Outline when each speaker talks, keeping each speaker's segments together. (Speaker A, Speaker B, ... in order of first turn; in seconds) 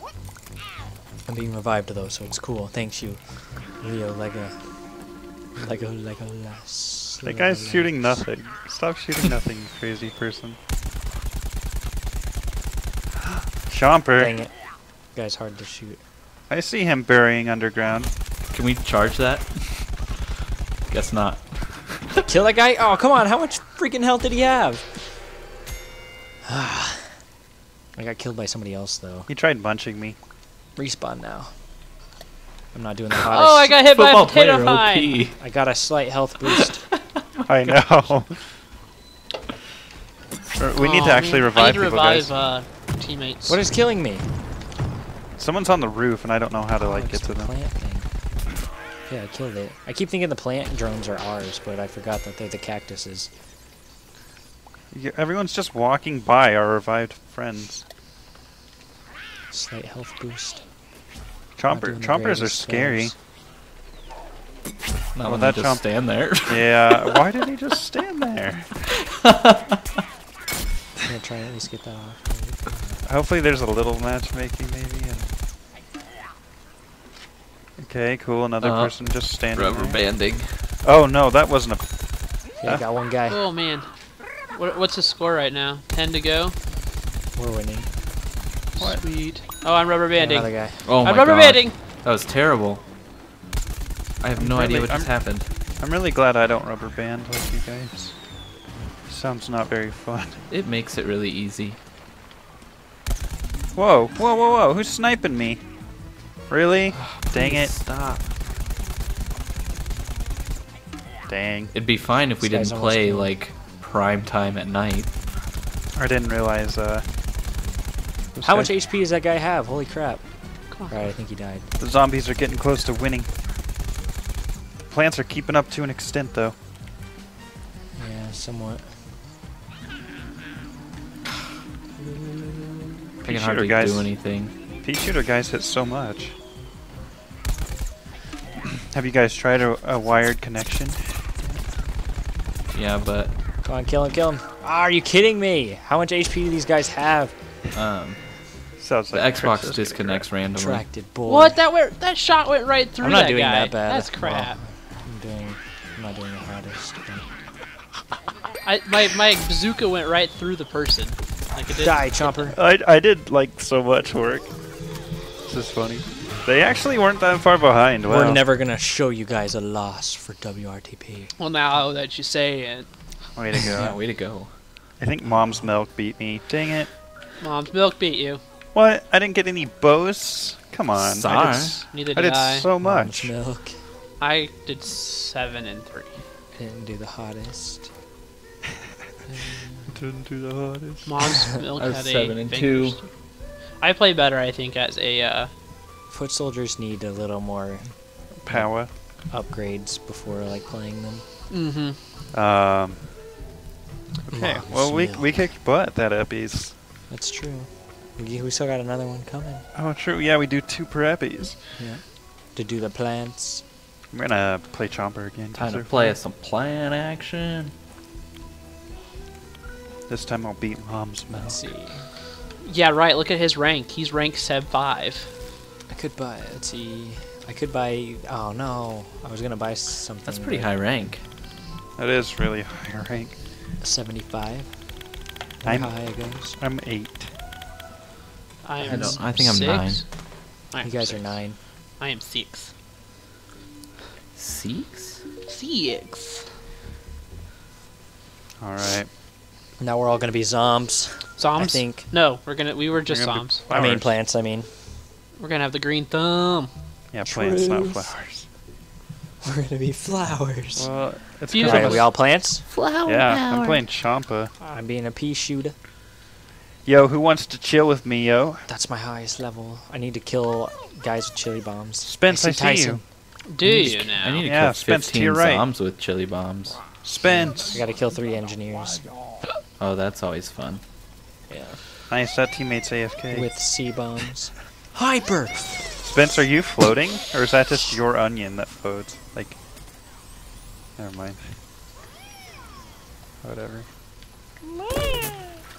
Speaker A: 1.2-8.2, 14.2-14.5, 15.1-16.0, 22.2-24.9, 26.4-27.2, 27.9-29.3, 30.8-31.5, 32.7-33.7, 35.4-36.8, 43.5-44.3, 46.8-48.1, 49.1-53.3, 59.5-60.6, 61.7-63.1, 71.0-72.7, 82.6-83.4, 87.3-87.9, 90.1-90.8, 112.4-113.3, 118.4-120.2, 120.7-121.7, 128.0-129.0, 143.6-147.3, 150.6-151.6, 153.0-157.3, 161.8-162.6, 168.0-171.3, 175.2-175.7, 182.8-183.8, 186.5-187.9, 196.1-201.2, 204.3-205.3, 207.1-209.6, 211.8-213.6, 221.3-222.0, 225.9-230.7, 233.8-234.8, 235.6-236.6, 238.8-239.2, 240.8-241.6, 249.8-252.1, 253.7-254.7, 257.2-258.1, 259.4-260.9, 261.5-262.7, 264.6-265.7, 268.7-273.0, 277.2-279.1, 281.5-281.8, 283.3-285.8
Speaker B: 7.2-10.6, 13.6-14.3, 16.5-18.1, 29.3-30.2, 37.5-38.4, 40.5-42.3, 45.4-47.5, 54.9-57.8, 61.6-63.1, 65.2-65.9, 66.5-68.9, 73.0-75.3, 77.8-80.0, 80.8-82.0, 94.3-98.2, 99.1-100.4, 103.7-105.7, 106.5-107.8, 111.3-111.7, 115.9-117.0, 118.3-118.7, 121.8-123.3, 124.9-126.5, 133.2-134.2, 134.8-136.3, 138.8-141.0, 148.8-150.3, 162.5-164.5, 165.4-168.4, 173.3-174.0, 175.0-176.9, 178.7-183.3, 189.9-191.2, 198.4-198.9, 202.3-203.0, 204.3-206.7, 209.7-211.7, 214.1-215.9, 220.1-221.7, 232.0-233.3, 235.6-237.3, 248.6-249.1, 253.1-254.1, 257.1-258.5, 260.8-262.3, 263.1-264.5, 266.8-268.6, 272.0-273.0, 274.4-275.7, 277.0-277.8, 282.1-283.5, 286.0-289.6, 291.0-291.5, 293.4-293.9
Speaker C: 18.5-19.9, 20.9-22.1, 33.9-35.4, 37.4-37.8, 65.1-67.1, 69.3-69.8, 78.6-78.9, 79.5-80.7, 90.8-92.8, 94.2-95.5, 100.5-101.8, 107.0-108.3, 111.7-115.1, 133.2-134.5, 142.7-143.3, 147.7-148.2, 149.1-150.8, 173.7-174.5, 180.9-181.8, 191.8-193.0, 215.6-217.7, 230.2-231.2, 238.8-240.0, 244.3-245.2, 262.7-263.8, 273.6-276.9, 279.8-280.8
Speaker D: 33.3-35.2, 40.8-43.6, 83.3-83.9, 84.4-86.5, 88.8-91.8, 151.2-154.6, 158.6-162.4, 171.4-172.9, 177.4-178.4, 181.9-182.7, 184.2-186.1, 191.0-193.1, 193.8-195.5, 201.5-202.0, 222.6-225.3, 238.6-240.1, 240.7-242.7, 245.4-246.5, 251.4-253.6, 255.4-256.7, 261.5-262.1, 273.5-274.5